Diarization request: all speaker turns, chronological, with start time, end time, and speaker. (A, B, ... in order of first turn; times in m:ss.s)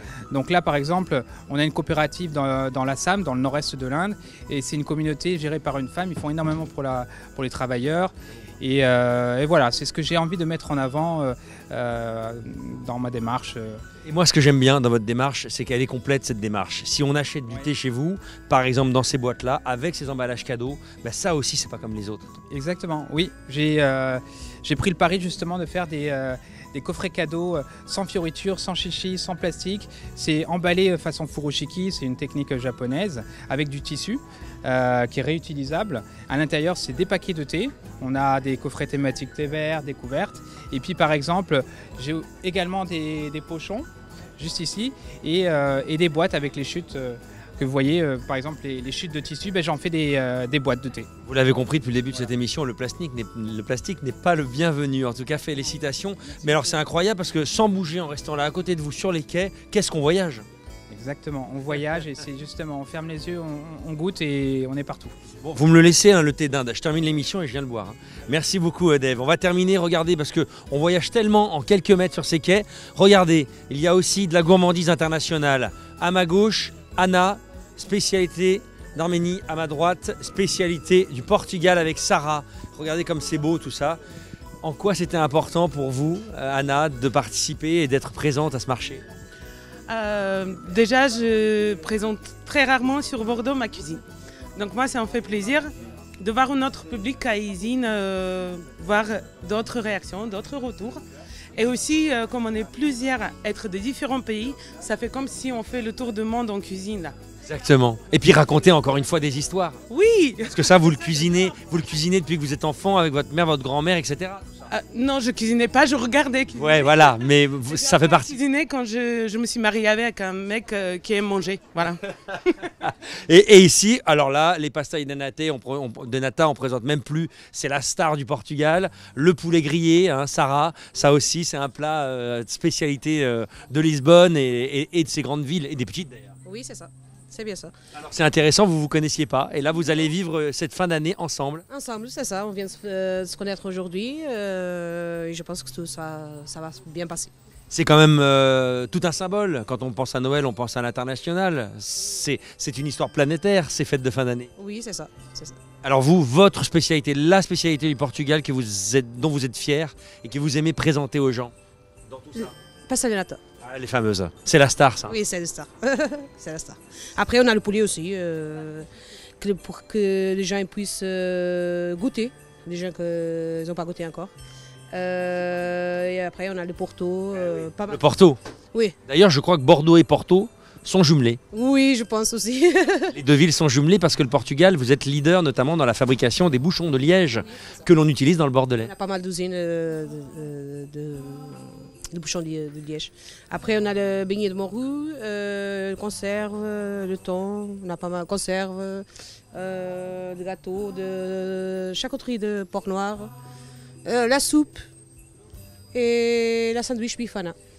0:00.3-0:13.8 A
0:14.0-0:22.4 B
0:22.5-0:43.9 A
0:44.4-0:51.1 A
0:51.3-1:00.5 B
1:00.9-1:05.1 A
1:05.4-1:24.0 B
1:24.6-1:29.0 B
1:29.9-1:34.0 C
1:34.6-1:41.0 C
1:41.6-1:47.2 C
1:47.4-1:49.8 B
1:49.9-1:50.8 C
1:50.5-1:54.5 B
1:54.7-2:02.6 C
1:56.6-1:58.3 B
2:02.8-2:16.4 B
2:16.4-2:17.7 D
2:17.9-2:21.6 B
2:21.7-2:27.3 D
2:27.7-2:34.5 B
2:34.6-2:35.6 D
2:35.8-2:41.5 B
2:42.1-2:42.5 B
2:42.4-2:43.4 D
2:43.6-2:45.2 B
2:45.0-2:54.3 D
2:54.9-2:58.0 D
2:57.3-2:58.4 B
2:59.1-3:01.4 B
3:01.5-3:03.2 D
3:03.1-3:08.9 B
3:08.8-3:23.3 D
3:24.0-3:24.9 D
3:25.9-3:27.6 D